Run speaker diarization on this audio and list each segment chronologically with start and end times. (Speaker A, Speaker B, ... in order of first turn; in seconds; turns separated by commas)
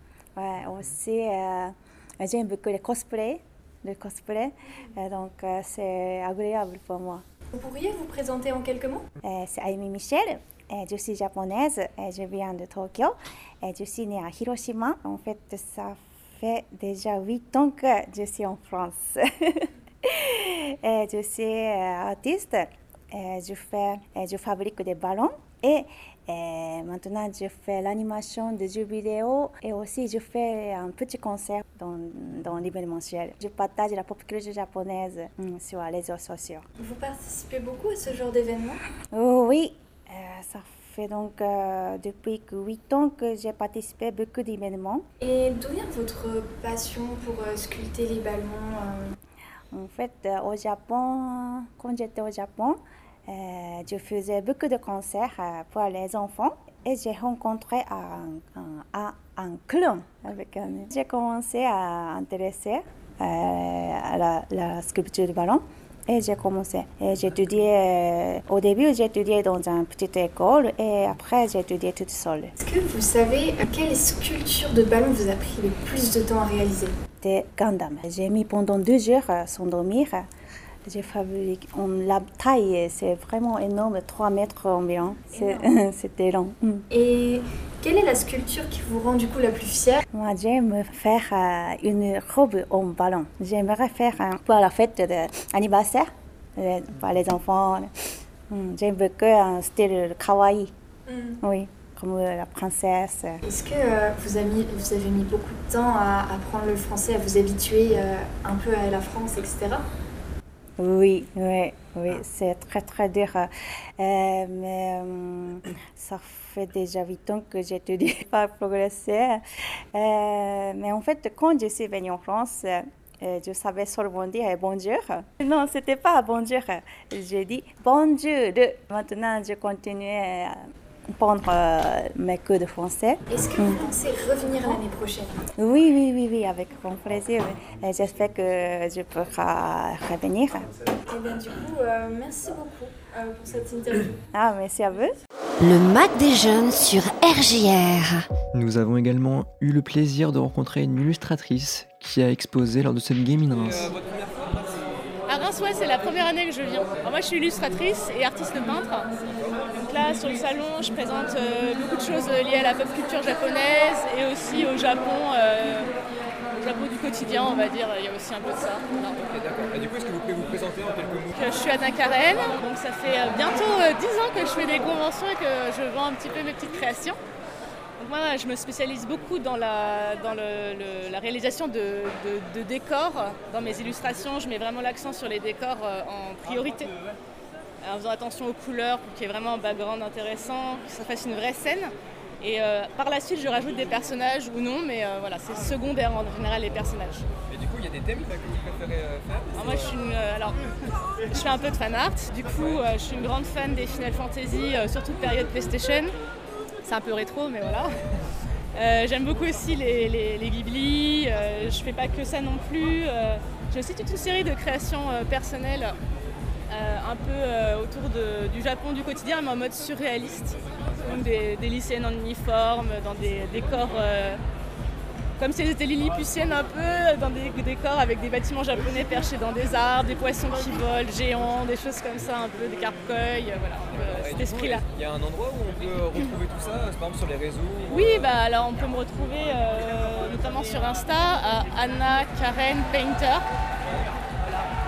Speaker A: 0.4-7.2, Speaker B: 7.5-9.1, Speaker A: 9.2-36.6, Speaker B: 36.8-38.8, Speaker A: 39.1-45.0, Speaker B: 45.2-49.1, Speaker A: 49.7-72.5, Speaker B: 72.6-76.9, Speaker A: 77.2-80.3, Speaker A: 80.9-86.9, Speaker B: 85.3-85.7, Speaker B: 86.9-90.0, Speaker A: 90.1-97.9, Speaker A: 98.5-100.7, Speaker B: 101.1-101.4, Speaker A: 101.4-103.4, Speaker B: 103.4-109.8, Speaker A: 110.8-119.4, Speaker A: 119.9-130.6, Speaker A: 131.2-133.8, Speaker B: 133.3-135.3, Speaker A: 135.6-140.7, Speaker B: 141.1-144.2, Speaker A: 144.3-145.2, Speaker C: 145.6-148.3, Speaker D: 148.5-153.9, Speaker E: 153.5-155.1, Speaker F: 155.3-159.1, Speaker E: 159.2-159.6, Speaker F: 159.6-165.9, Speaker F: 166.5-169.2, Speaker E: 169.2-171.4, Speaker F: 171.3-177.2, Speaker F: 178.0-186.9, Speaker F: 187.8-197.3, Speaker E: 197.5-199.9, Speaker F: 199.6-200.6, Speaker F: 201.3-206.2, Speaker F: 206.8-207.9, Speaker F: 208.8-216.0, Speaker F: 216.7-224.4, Speaker F: 225.4-234.8, Speaker E: 233.9-238.4, Speaker F: 237.9-243.5, Speaker E: 243.8-244.1